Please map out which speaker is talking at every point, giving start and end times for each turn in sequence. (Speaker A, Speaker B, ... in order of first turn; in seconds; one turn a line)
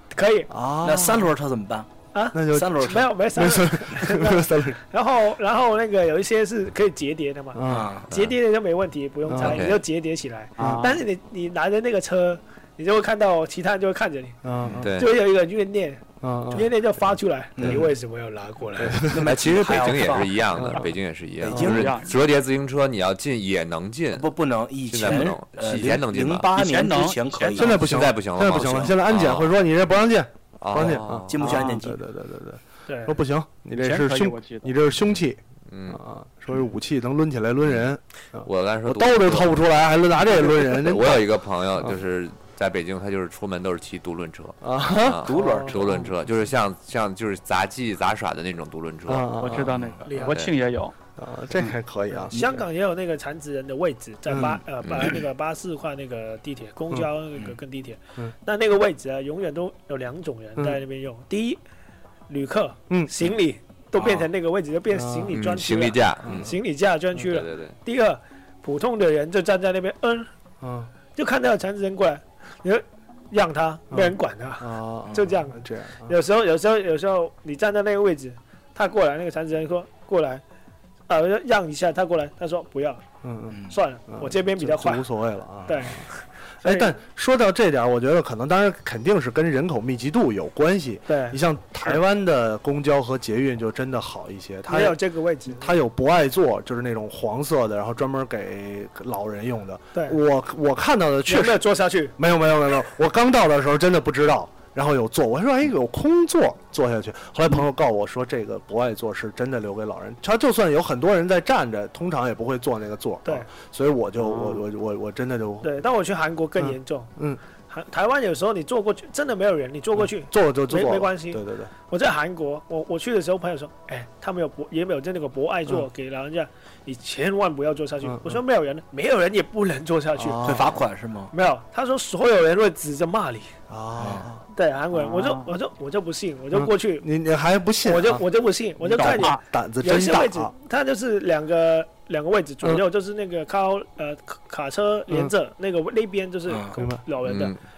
Speaker A: 0.1-0.5
Speaker B: 0.5-1.3
Speaker C: 0.8-1.9
Speaker A: 2.1-14.4
Speaker B: 2.3-4.8
Speaker C: 2.5-3.1
Speaker B: 7.5-7.9
Speaker C: 7.7-8.1
Speaker B: 9.3-9.6
Speaker D: 9.4-9.8
Speaker E: 10.6-11.0
Speaker B: 10.6-10.9
Speaker B: 14.4-14.9
Speaker C: 14.6-14.9
Speaker D: 14.8-15.2
Speaker A: 14.9-19.0
Speaker B: 16.2-16.7
Speaker C: 17.6-17.9
Speaker B: 18.8-19.3
Speaker C: 19.0-20.6
Speaker D: 19.1-24.3
Speaker B: 20.6-20.8
Speaker C: 21.4-22.0
Speaker E: 21.6-22.1
Speaker C: 24.1-28.0
Speaker D: 24.9-26.5
Speaker E: 26.5-27.7
Speaker B: 27.6-41.2
Speaker D: 27.7-29.5
Speaker D: 30.6-31.5
Speaker C: 31.3-32.0
Speaker A: 32.9-33.2
Speaker E: 33.8-34.8
Speaker D: 35.7-36.0
Speaker D: 38.4-39.5
Speaker D: 40.2-49.4
Speaker B: 44.6-45.3
Speaker C: 45.2-46.0
Speaker A: 45.3-45.8
Speaker B: 49.1-49.8
Speaker E: 49.4-50.9
Speaker A: 50.1-50.3
Speaker D: 50.2-50.5
Speaker B: 51.2-52.5
Speaker A: 52.3-61.6
Speaker B: 54.3-54.6
Speaker D: 54.8-55.1
Speaker A: 62.3-70.3
Speaker C: 64.0-64.2
Speaker B: 64.9-65.3
Speaker D: 65.3-66.5
Speaker D: 67.2-67.8
Speaker B: 70.6-70.9
Speaker A: 71.1-80.4
Speaker B: 73.9-76.1
Speaker A: 81.1-83.0
Speaker B: 83.2-86.0
Speaker C: 83.5-83.8
Speaker A: 83.7-85.0
Speaker A: 85.7-87.0
Speaker B: 86.6-101.6
Speaker A: 91.1-92.0
Speaker A: 94.7-95.8
Speaker A: 101.3-102.1
Speaker B: 102.2-115.7
Speaker E: 114.2-114.6
Speaker A: 115.6-117.1
Speaker B: 116.6-117.4
Speaker A: 117.7-130.5
Speaker B: 120.0-121.7
Speaker B: 128.0-128.4
Speaker B: 130.2-130.8
Speaker C: 130.4-131.3
Speaker A: 131.3-133.5
Speaker B: 133.7-134.4
Speaker C: 134.0-134.3
Speaker A: 134.5-137.1
Speaker E: 134.9-135.5
Speaker B: 136.5-138.2
Speaker A: 137.8-147.5
Speaker B: 138.8-140.5
Speaker E: 139.0-139.4
Speaker C: 146.5-146.7
Speaker B: 146.8-147.0
Speaker D: 147.2-147.6